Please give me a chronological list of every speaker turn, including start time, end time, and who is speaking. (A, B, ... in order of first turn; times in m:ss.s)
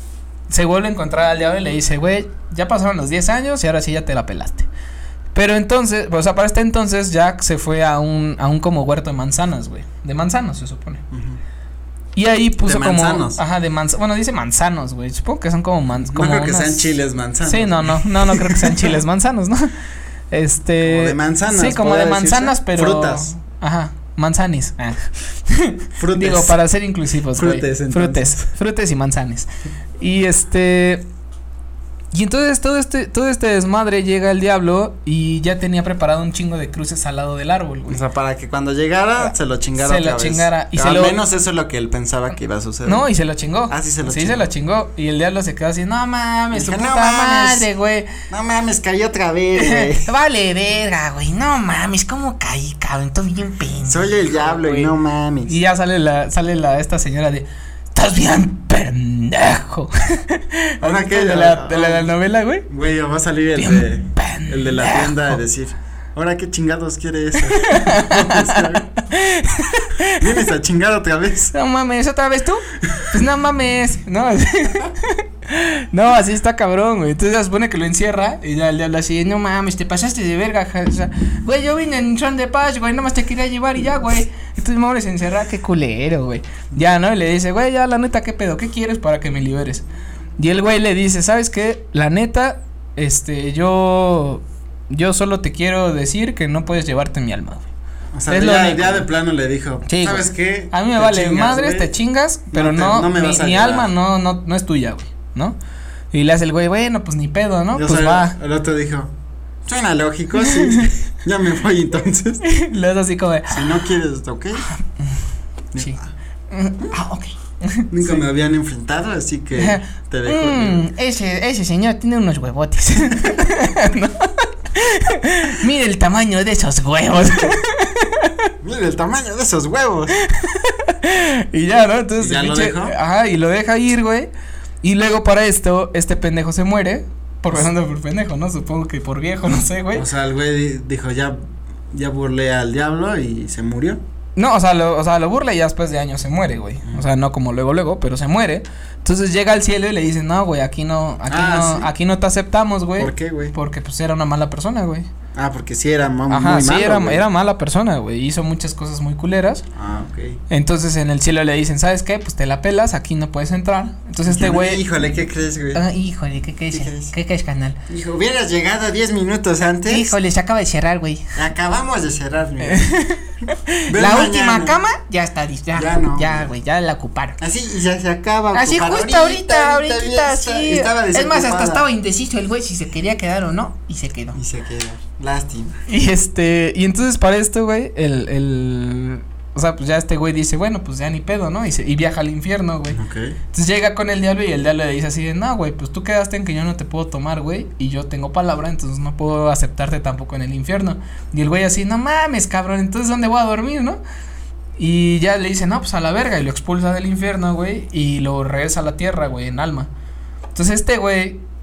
0:00.5-0:04.7 A
0:05.3-0:11.0 A
0:11.1-0:11.4 B
0:12.2-0:16.9 A
0:12.6-0:13.4 B
0:16.0-0:19.0 B
0:17.4-0:19.7 A
0:20.3-0:29.5 A
0:20.8-0:23.3 B
0:26.0-0:26.6 B
0:27.3-0:28.5 B
0:30.0-0:31.0 A
0:32.1-0:38.0 A
0:37.9-0:43.0 B
0:39.2-0:41.2 A
0:42.8-0:48.1 A
0:43.7-0:44.5 B
0:46.5-0:47.7 B
0:48.3-0:50.1 B
0:49.6-0:54.9 A
0:53.9-0:55.6 B
0:55.4-1:02.7 A
1:00.8-1:02.1 B
1:02.7-1:08.9 B
1:03.6-1:05.4 A
1:07.4-1:10.4 A
1:09.8-1:11.5 B
1:11.5-1:29.8 A
1:30.4-1:37.7 A
1:38.1-1:41.9 B
1:38.3-1:39.1 A
1:39.8-1:45.6 A
1:42.5-1:43.9 B
1:46.1-1:48.4 A
1:47.7-1:49.1 B
1:49.6-1:52.4 B
1:50.4-1:50.9 A
1:52.4-1:53.8 A
1:53.5-1:54.7 B
1:54.8-1:55.2 A
1:55.7-1:56.1 B
1:56.5-1:58.2 A
1:57.9-2:00.8 B
1:59.6-2:08.5 A
2:08.6-2:10.2 B
2:10.2-2:14.3 A
2:12.2-2:12.9 B
2:14.8-2:20.1 A
2:19.9-2:21.4 B
2:21.9-2:24.0 B
2:24.4-2:35.1 A
2:31.3-2:31.9 B
2:33.0-2:33.5 B
2:35.3-2:37.2 B
2:36.3-2:39.6 A
2:39.7-2:40.4 B
2:40.5-2:44.8 A
2:44.2-2:45.8 B
2:45.7-2:47.8 A
2:46.7-2:47.1 B
2:47.9-2:50.1 B
2:49.9-2:51.3 A
2:51.3-2:52.9 B
2:52.6-2:57.4 A
2:53.9-2:54.8 B
2:55.7-2:56.5 B
2:57.4-3:01.8 B
2:58.5-3:04.4 A
3:04.3-3:05.8 B
3:05.9-3:13.0 A
3:12.9-3:13.4 B
3:13.5-3:24.0 A
3:24.8-3:29.9 A
3:30.5-3:31.4 A